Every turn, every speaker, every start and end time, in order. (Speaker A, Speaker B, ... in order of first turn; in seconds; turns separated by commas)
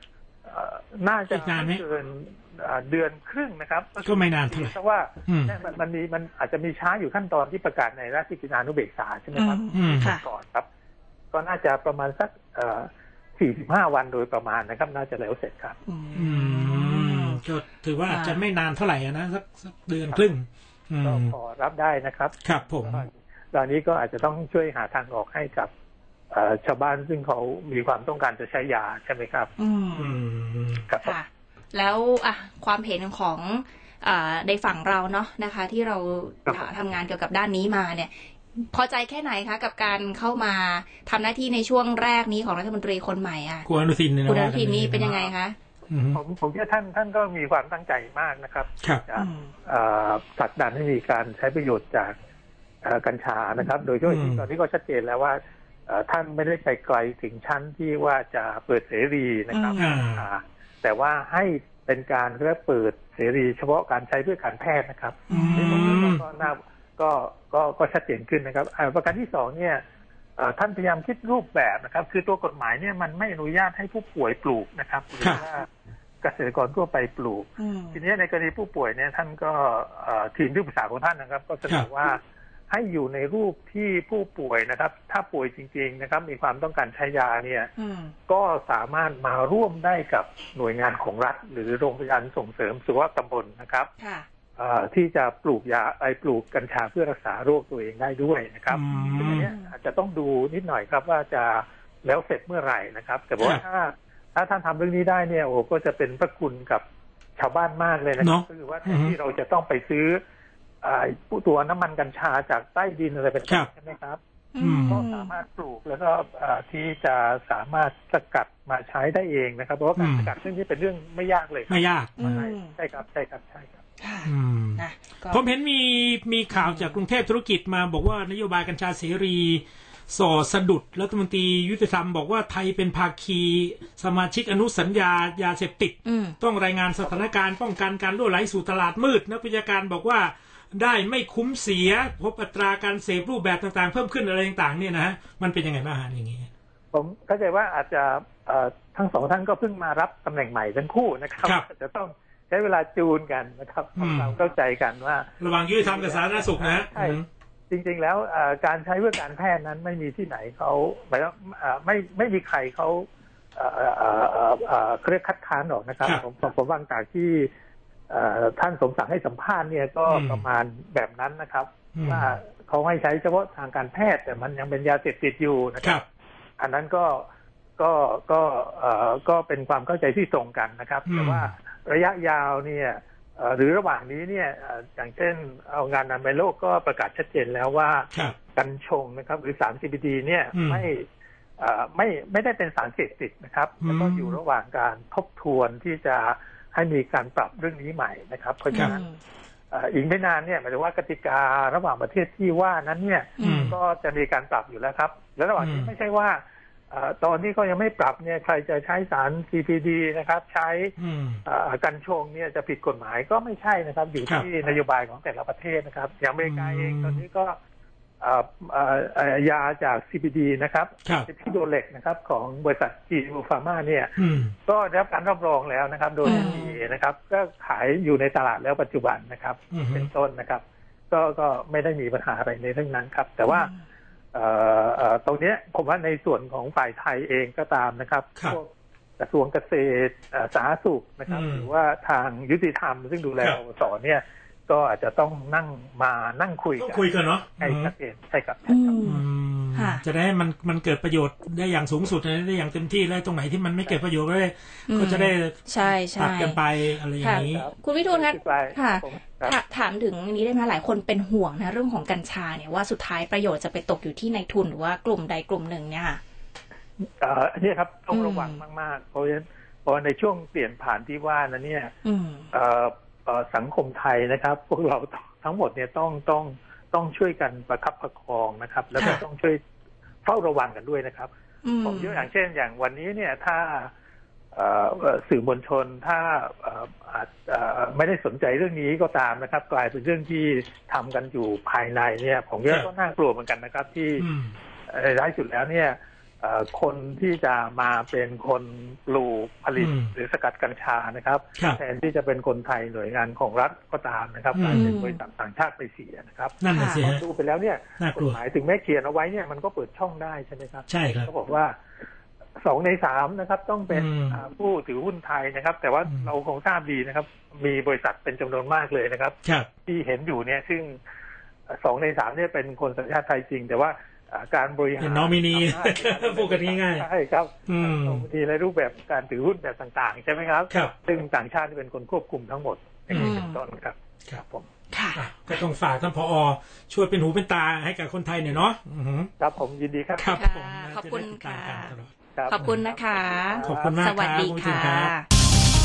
Speaker A: 0.4-10.7, Speaker B: 1.3-1.8, Speaker B: 4.0-4.7, Speaker B: 5.3-5.5, Speaker C: 9.3-10.2, Speaker B: 9.7-10.1, Speaker A: 11.3-15.8, Speaker C: 15.8-17.4, Speaker B: 16.1-21.3, Speaker C: 18.0-18.4, Speaker A: 21.0-25.7, Speaker B: 22.4-23.0, Speaker A: 26.3-29.5, Speaker C: 29.6-30.2, Speaker B: 29.9-30.9, Speaker A: 30.9-31.1, Speaker C: 31.0-43.6, Speaker B: 43.6-45.1, Speaker C: 44.2-45.5, Speaker A: 45.0-45.3, Speaker B: 45.9-46.2, Speaker A: 46.1-52.1, Speaker C: 49.1-49.5, Speaker A: 52.8-69.8, Speaker B: 54.0-54.4, Speaker C: 59.5-60.0, Speaker B: 59.8-60.2, Speaker C: 65.3-66.1, Speaker B: 65.3-66.2, Speaker A: 70.4-75.7, Speaker A: 76.2-87.7, Speaker C: 77.6-78.0, Speaker C: 87.8-88.1, Speaker A: 88.3-93.9, Speaker C: 94.0-94.3, Speaker A: 94.6-106.8, Speaker B: 98.7-99.5, Speaker C: 98.9-99.7, Speaker A: 107.4-110.2, Speaker B: 108.2-109.1, Speaker A: 110.8-114.2, Speaker C: 114.5-115.3, Speaker B: 114.6-115.0, Speaker A: 114.9-123.8, Speaker B: 120.0-120.3, Speaker B: 121.7-122.5, Speaker C: 122.2-122.7, Speaker C: 124.0-125.4, Speaker B: 124.2-146.5, Speaker C: 126.5-127.0, Speaker C: 136.1-136.4, Speaker A: 146.9-167.5, Speaker B: 153.9-154.3, Speaker B: 155.4-157.2, Speaker A: 168.1-176.0, Speaker B: 170.1-170.4, Speaker B: 171.9-172.2, Speaker A: 176.6-177.2, Speaker A: 177.8-191.1, Speaker B: 181.1-181.5, Speaker B: 190.5-190.8, Speaker A: 191.6-199.1, Speaker B: 193.8-194.3, Speaker C: 198.7-199.1, Speaker A: 199.7-210.9, Speaker C: 203.4-203.7, Speaker B: 203.4-203.8, Speaker B: 205.6-205.9, Speaker B: 211.0-211.4, Speaker A: 211.4-217.6, Speaker B: 216.4-217.2, Speaker A: 218.2-233.7, Speaker B: 224.2-224.5, Speaker C: 226.2-226.8, Speaker B: 229.7-230.1, Speaker C: 233.5-233.8, Speaker A: 234.3-249.0, Speaker B: 241.3-241.7, Speaker B: 246.8-247.9, Speaker C: 248.7-250.0, Speaker B: 249.0-257.6, Speaker C: 254.9-256.6, Speaker C: 257.2-266.2, Speaker A: 257.3-259.6, Speaker A: 267.2-271.9, Speaker C: 268.1-268.6, Speaker C: 272.0-272.5, Speaker A: 272.5-279.6, Speaker A: 280.2-281.3, Speaker C: 281.6-282.2, Speaker A: 281.8-283.9, Speaker A: 284.5-294.3, Speaker B: 294.2-294.5, Speaker A: 294.9-311.7, Speaker B: 299.8-300.1, Speaker B: 304.5-304.9, Speaker C: 304.7-305.2, Speaker B: 306.6-307.2, Speaker C: 306.7-307.0, Speaker B: 308.0-308.4, Speaker B: 310.9-311.3, Speaker A: 312.6-321.0, Speaker B: 313.9-314.4, Speaker A: 321.7-334.7, Speaker B: 325.0-327.1, Speaker B: 327.7-328.2, Speaker B: 333.1-333.4, Speaker C: 333.1-333.6, Speaker C: 334.9-335.2, Speaker B: 335.1-339.3, Speaker A: 339.4-340.3, Speaker B: 340.2-342.8, Speaker C: 340.3-341.9, Speaker A: 342.3-344.0, Speaker C: 342.5-345.2, Speaker B: 343.6-345.1